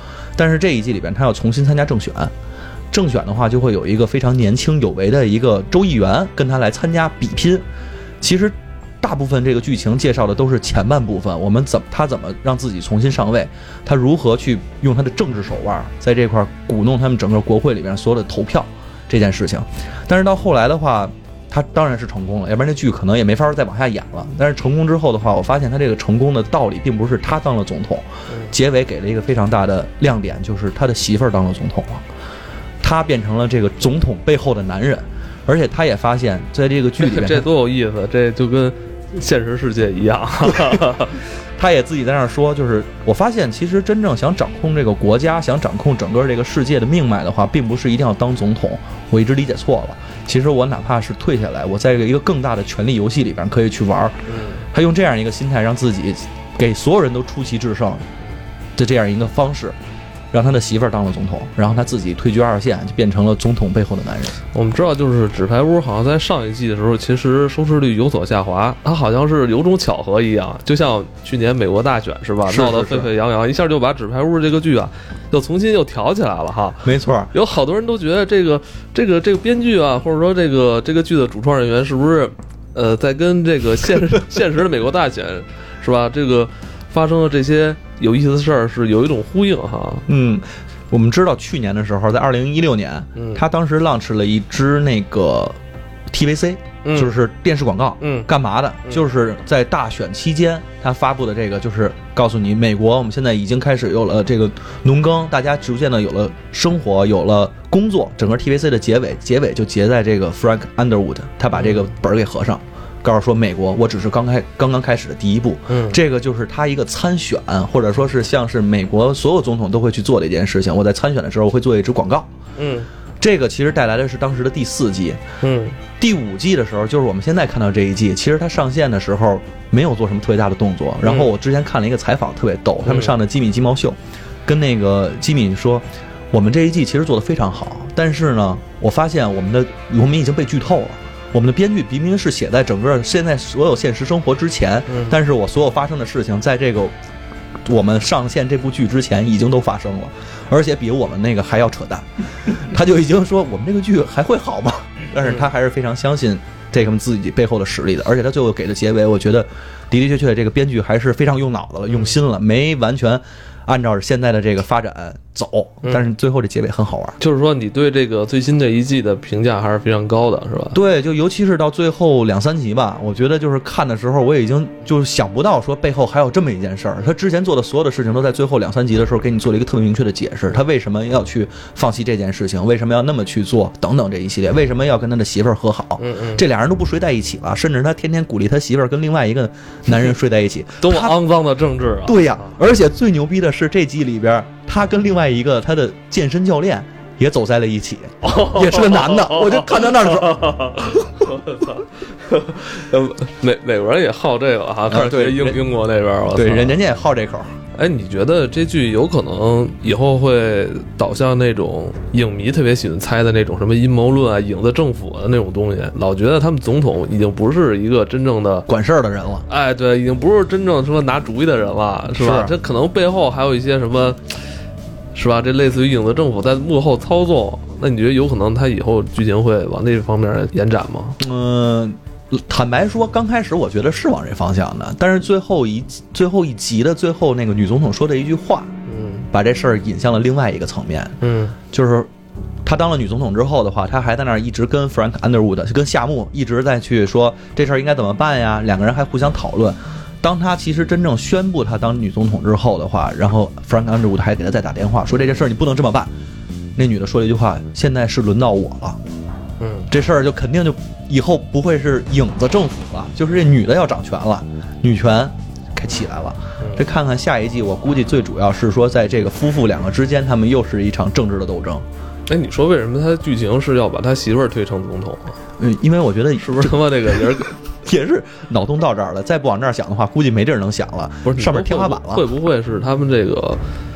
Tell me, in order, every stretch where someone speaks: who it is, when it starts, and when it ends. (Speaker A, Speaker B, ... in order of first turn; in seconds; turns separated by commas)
Speaker A: 0.4-2.3, Speaker A: 2.9-7.7, Speaker A: 8.2-32.0, Speaker A: 32.8-37.5, Speaker B: 37.0-41.2, Speaker A: 41.6-58.0, Speaker B: 54.3-54.6, Speaker A: 58.8-59.8, Speaker A: 60.3-64.4, Speaker B: 64.5-90.1, Speaker A: 72.5-73.1, Speaker A: 76.8-77.3, Speaker A: 90.1-95.6, Speaker B: 93.2-93.4, Speaker A: 96.1-122.3, Speaker B: 96.8-97.2, Speaker B: 98.0-98.3, Speaker B: 111.6-111.8, Speaker B: 115.7-116.0, Speaker B: 122.6-122.9, Speaker A: 123.2-125.2, Speaker B: 125.4-125.8, Speaker A: 126.0-146.9, Speaker B: 131.0-131.3, Speaker B: 132.9-133.2, Speaker B: 144.9-145.2, Speaker A: 147.7-167.2, Speaker B: 167.2-170.8, Speaker A: 170.7-191.2, Speaker B: 186.0-186.4, Speaker B: 190.8-192.5, Speaker A: 192.1-200.6, Speaker B: 198.2-206.8, Speaker A: 204.9-205.6, Speaker A: 206.3-207.5, Speaker B: 207.8-218.7, Speaker A: 218.7-219.4, Speaker B: 219.5-224.2, Speaker A: 222.2-222.6, Speaker B: 225.2-231.2, Speaker A: 231.2-238.7, Speaker B: 238.9-239.3, Speaker A: 239.3-241.2, Speaker B: 241.2-241.6, Speaker A: 241.7-242.1, Speaker A: 242.7-256.1, Speaker A: 256.8-259.0, Speaker B: 259.6-259.9, Speaker A: 259.9-271.8, Speaker B: 272.3-275.4, Speaker A: 275.6-282.3, Speaker B: 276.4-277.5, Speaker B: 281.2-283.6